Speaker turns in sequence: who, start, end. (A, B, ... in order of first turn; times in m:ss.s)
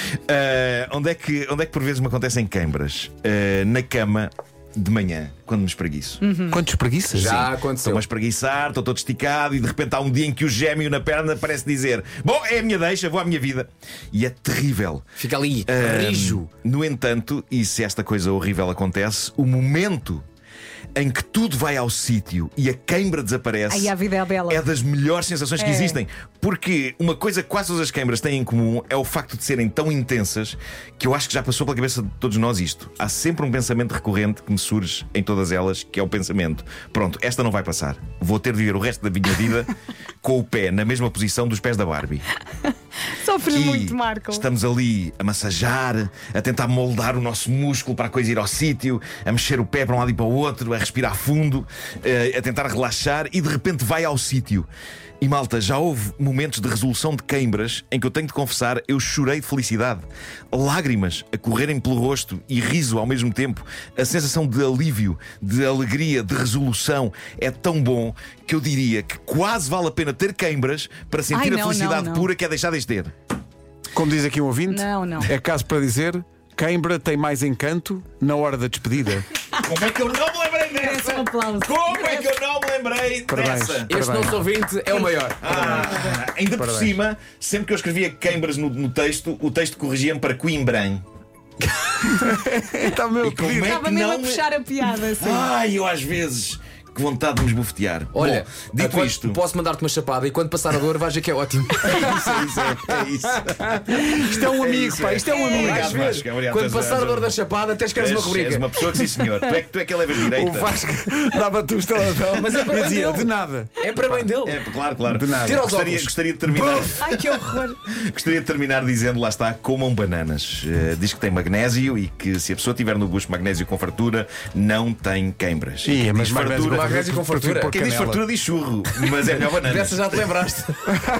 0:00.3-0:06.2 A
0:06.2-0:06.6 B
0:06.5-0:07.4 C
0:07.1-0:08.0 D
0:07.4-0:15.1 A
0:15.2-0:16.5 D
0:15.7-0:20.2 A
0:21.0-0:24.0 A
0:23.7-0:24.6 B
0:24.5-0:39.7 A
0:25.6-0:26.0 B
0:40.2-0:42.3 A
0:43.2-0:44.4 B
0:43.5-0:54.7 A
0:55.2-1:13.1 A
1:11.3-1:12.3 B
1:13.9-1:19.3 C
1:14.7-1:15.3 B
1:19.6-1:23.9 A
1:20.8-1:22.3 B
1:23.3-1:24.5 C
1:23.9-1:25.8 D
1:25.4-1:31.0 A
1:25.7-1:26.2 B
1:26.5-1:27.0 C
1:32.1-1:33.8 C
1:33.2-1:39.4 A
1:33.7-1:35.5 B
1:38.1-1:42.6 D
1:42.0-1:47.4 A
1:43.3-1:44.0 D
1:43.9-1:45.8 C
1:45.5-1:48.7 D
1:45.5-1:46.1 B
1:47.9-1:50.8 A
1:50.3-1:53.7 C
1:52.3-1:54.6 D
1:54.4-2:07.0 A
1:55.1-1:55.7 C
1:55.4-1:56.1 D
1:56.6-1:56.9 C
1:57.0-1:57.8 B
2:05.8-2:08.2 C
2:06.6-2:07.7 D
2:07.7-2:10.2 A
2:09.2-2:10.8 D